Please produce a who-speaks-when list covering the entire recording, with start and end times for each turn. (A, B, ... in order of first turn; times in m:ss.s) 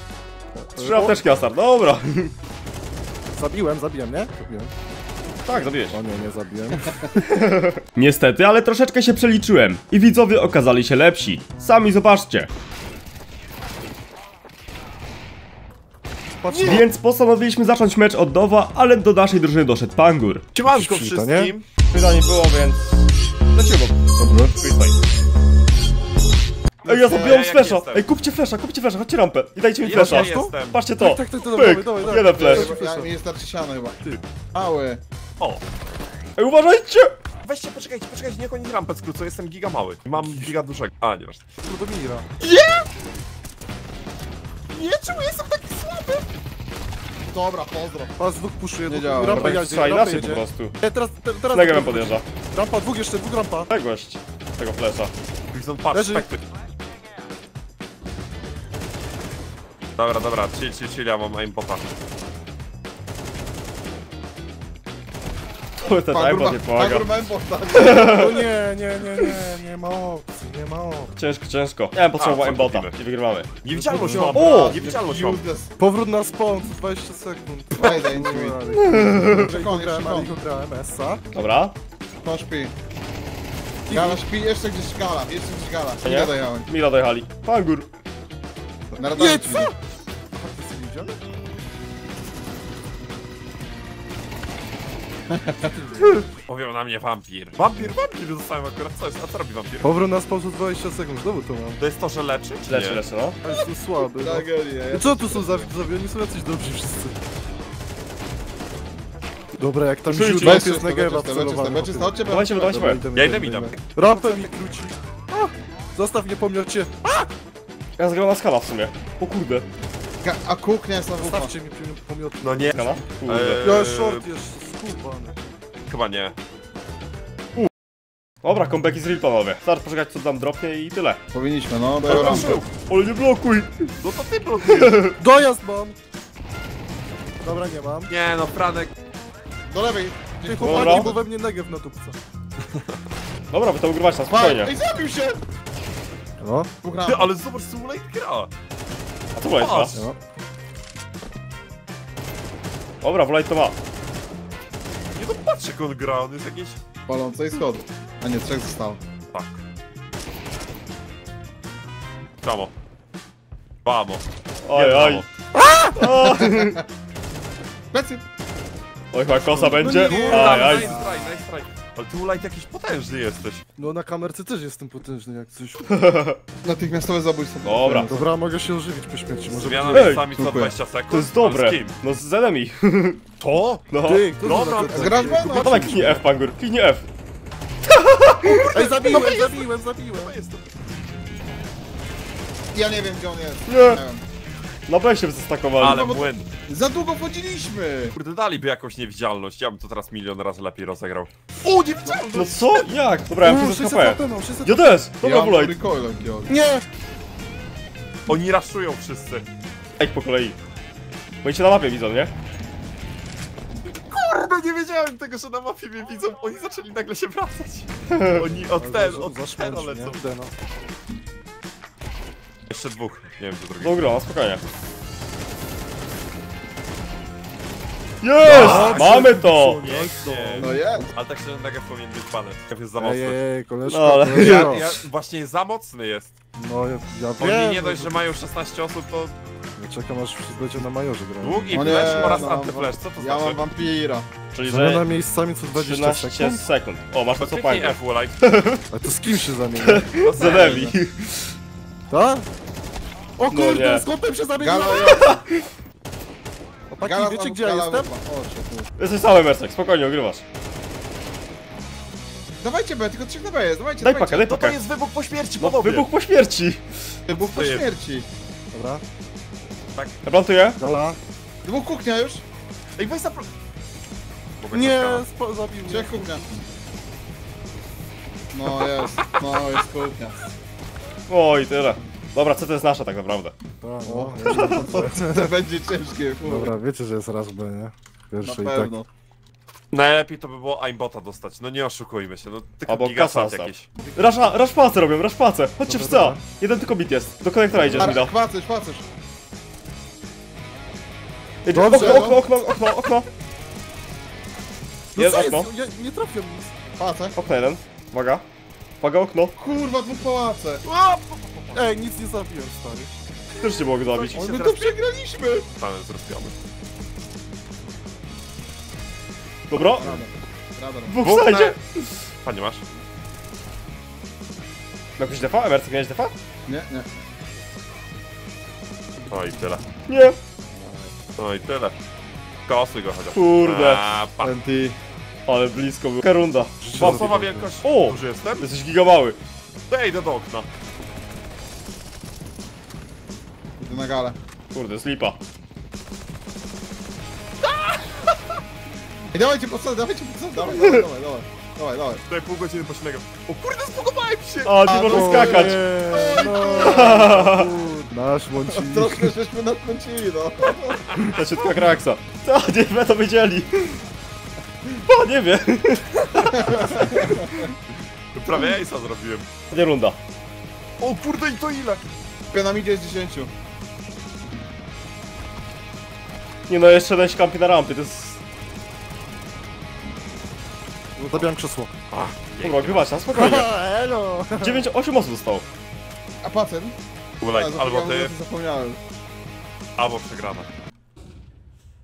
0:00.6-0:01.2 A
0:00.8-0:02.3 B
0:03.3-0:04.7 A
0:05.4-0:06.0 B
0:05.9-0:07.1 A
0:07.1-0:12.5 B
0:16.4-0:16.9 A
0:16.5-0:20.4 B
0:20.5-0:21.6 C
0:20.7-0:21.5 A
0:21.9-0:24.0 B
0:24.2-0:24.6 A
0:24.6-0:25.0 B
0:26.8-0:32.7 B
0:26.9-0:28.1 C
0:27.0-0:27.4 D
0:29.8-0:30.8 C
0:30.0-0:33.1 A
0:32.1-0:34.0 D
0:34.5-0:35.0 D
0:36.4-0:37.1 B
0:37.4-0:41.5 C
0:40.2-0:40.5 A
0:41.6-0:42.3 A
0:44.7-0:46.3 A
0:47.3-0:48.1 D
0:48.2-0:53.7 A
0:48.9-0:49.7 D
0:49.3-0:50.8 B
0:51.5-0:52.2 B
0:53.7-0:55.1 B
0:55.5-0:56.4 C
0:55.9-0:56.3 A
1:00.0-1:02.0 C
1:05.8-1:07.1 B
1:06.1-1:08.5 D
1:07.7-1:08.5 B
1:07.8-1:11.1 A
1:11.2-1:13.5 B
1:12.2-1:13.0 C
1:13.6-1:15.4 C
1:13.7-1:14.4 A
1:14.1-1:15.7 D
1:14.3-1:14.8 B
1:15.8-1:21.3 A
1:17.8-1:18.6 D
1:18.8-1:19.5 B
1:19.5-1:20.3 D
1:21.3-1:21.8 B
1:22.2-1:22.7 D
1:23.9-1:26.7 D
1:23.9-1:24.2 A
1:26.0-1:27.9 B
1:28.9-1:29.7 D
1:29.2-1:29.8 A
1:30.3-1:31.2 A
1:35.3-1:35.7 D
1:35.6-1:36.2 A
1:36.5-1:39.9 C
1:39.8-1:41.8 A
1:41.8-1:43.0 C
1:42.7-1:43.4 B
1:43.4-1:47.2 A
1:44.2-1:45.7 D
1:49.6-1:57.3 A
1:50.1-1:50.8 B
1:50.4-1:52.7 D
1:52.2-1:53.0 B
1:53.1-1:53.8 C
1:58.0-1:59.7 B
2:00.2-2:01.5 D
2:01.2-2:02.9 A
2:02.4-2:04.3 C
2:02.7-2:03.6 B
2:03.6-2:05.4 A
2:05.9-2:06.4 C
2:08.4-2:11.2 B
2:11.3-2:12.6 D
2:12.1-2:12.7 C
2:12.1-2:13.9 B
2:14.0-2:15.1 C
2:14.7-2:15.1 B
2:15.2-2:16.0 A
2:17.4-2:18.1 A
2:18.1-2:18.9 C
2:19.7-2:21.2 D
2:20.4-2:22.2 A
2:20.6-2:21.1 B
2:23.5-2:24.7 B
2:24.3-2:25.4 D
2:26.4-2:26.7 A
2:26.8-2:27.4 D
2:27.1-2:28.5 C
2:29.4-2:30.0 B
2:29.5-2:30.1 C
2:29.9-2:30.2 A
2:33.0-2:33.8 B
2:35.1-2:36.8 C
2:37.1-2:39.0 D
2:39.3-2:39.6 C
2:42.4-2:42.7 C
2:43.8-2:45.3 C
2:44.6-2:45.2 B
2:46.0-2:46.8 B
2:46.2-2:46.8 D
2:47.9-2:48.2 D
2:49.1-2:51.0 B
2:49.4-2:51.1 A
2:49.8-2:53.6 C
2:53.8-2:55.9 A
2:55.9-2:56.4 B
2:56.6-2:58.3 D
2:57.6-2:58.1 B
2:58.1-3:00.2 A
2:59.5-3:02.0 C
2:59.9-3:00.3 B
3:00.3-3:00.7 D
3:01.1-3:03.2 B
3:03.4-3:06.1 C
3:03.9-3:04.3 B
3:04.0-3:05.6 A
3:04.7-3:06.2 D
3:05.5-3:07.0 B
3:07.9-3:09.0 B
3:08.5-3:10.7 C
3:08.7-3:10.4 A
3:12.7-3:14.2 D
3:13.7-3:14.0 B
3:14.9-3:16.1 B
3:15.8-3:16.5 C
3:15.8-3:18.2 D
3:18.2-3:22.9 C
3:22.3-3:25.8 B
3:23.4-3:25.0 A
3:25.2-3:26.5 D
3:26.5-3:26.8 A
3:28.3-3:29.5 C
3:30.0-3:30.6 B
3:31.4-3:32.3 B
3:34.1-3:40.2 C
3:38.1-3:38.4 B
3:38.8-3:40.5 A
3:42.7-3:44.0 C
3:43.8-3:44.6 B
3:48.2-3:49.8 B
3:48.4-3:53.4 C
3:48.5-3:51.1 A
3:50.6-3:51.1 D
3:53.0-3:55.0 A
3:53.9-3:54.9 B
3:54.4-3:56.3 C
3:56.6-3:58.2 A
3:57.4-3:59.4 C
3:59.8-4:02.5 A
4:01.4-4:03.6 C
4:01.7-4:04.3 D
4:04.5-4:05.1 B
4:04.6-4:06.6 A
4:05.7-4:08.8 B
4:07.4-4:08.7 C
4:08.9-4:10.1 A
4:09.8-4:11.5 B
4:10.2-4:11.0 C
4:10.5-4:10.8 D
4:12.1-4:12.5 A
4:13.4-4:15.4 A
4:13.5-4:14.1 B
4:14.6-4:15.4 D
4:15.0-4:15.3 B
4:16.9-4:18.1 A
4:17.0-4:18.9 D
4:19.0-4:20.4 B
4:22.6-4:24.5 D
4:24.0-4:24.8 B
4:24.4-4:26.1 C
4:25.6-4:26.8 B
4:27.3-4:28.3 D
4:27.3-4:27.9 C
4:28.7-4:29.0 A
4:30.2-4:30.8 B
4:30.8-4:31.2 A
4:31.6-4:32.4 D
4:33.0-4:33.5 C
4:34.6-4:35.3 C
4:34.7-4:36.2 A
4:35.9-4:36.4 D
4:38.5-4:40.4 D
4:38.9-4:39.2 C
4:41.3-4:43.5 B
4:43.8-4:45.5 A
4:44.0-4:46.7 D
4:46.5-4:48.9 A
4:48.4-4:49.1 D
4:49.9-4:53.9 C
4:52.9-4:58.4 B
4:55.9-4:56.4 A
4:57.7-4:58.2 A
4:58.0-4:59.1 D
5:01.6-5:03.3 B
5:01.7-5:02.4 A
5:01.7-5:02.6 D
5:05.1-5:06.8 A
5:05.2-5:05.7 B
5:07.0-5:07.4 D
5:07.4-5:08.4 B
5:09.0-5:09.5 B
5:09.6-5:10.8 D
5:10.8-5:12.0 C
5:11.7-5:13.1 A
5:13.6-5:15.0 C
5:13.6-5:14.5 B
5:14.3-5:15.7 D
5:15.7-5:16.6 C
5:19.7-5:20.2 B
5:19.7-5:21.2 D
5:21.1-5:22.2 B
5:21.2-5:21.8 C
5:22.4-5:22.8 C
5:25.2-5:26.3 B
5:26.7-5:27.1 D
5:29.3-5:29.8 C
5:30.1-5:30.4 B
5:30.8-5:31.1 D
5:31.4-5:32.0 C
5:32.7-5:34.6 C
5:33.3-5:34.0 B
5:34.4-5:35.0 D
5:35.5-5:39.4 B
5:36.8-5:37.7 A
5:36.9-5:38.7 C
5:39.9-5:40.7 C
5:43.8-5:44.4 D
5:44.7-5:45.4 B
5:47.6-5:48.4 C
5:49.3-5:52.2 D
5:50.6-5:51.1 B
5:52.3-5:57.1 C
5:54.6-5:55.8 B
5:54.9-5:55.3 D
5:55.1-5:59.3 A
5:56.1-5:57.2 D
5:56.8-5:57.7 B
5:58.7-6:01.1 D
6:01.1-6:01.8 C
6:01.2-6:04.0 B
6:04.9-6:07.4 B
6:06.5-6:07.7 D
6:08.4-6:09.5 C
6:09.7-6:10.2 B
6:11.0-6:12.1 C
6:12.5-6:13.5 D
6:16.7-6:18.4 B
6:21.2-6:21.9 A
6:22.1-6:23.2 C
6:22.6-6:23.7 B
6:23.3-6:24.9 A
6:24.5-6:25.7 B
6:26.4-6:27.0 D
6:27.4-6:28.3 C
6:27.5-6:29.0 D
6:30.0-6:30.7 C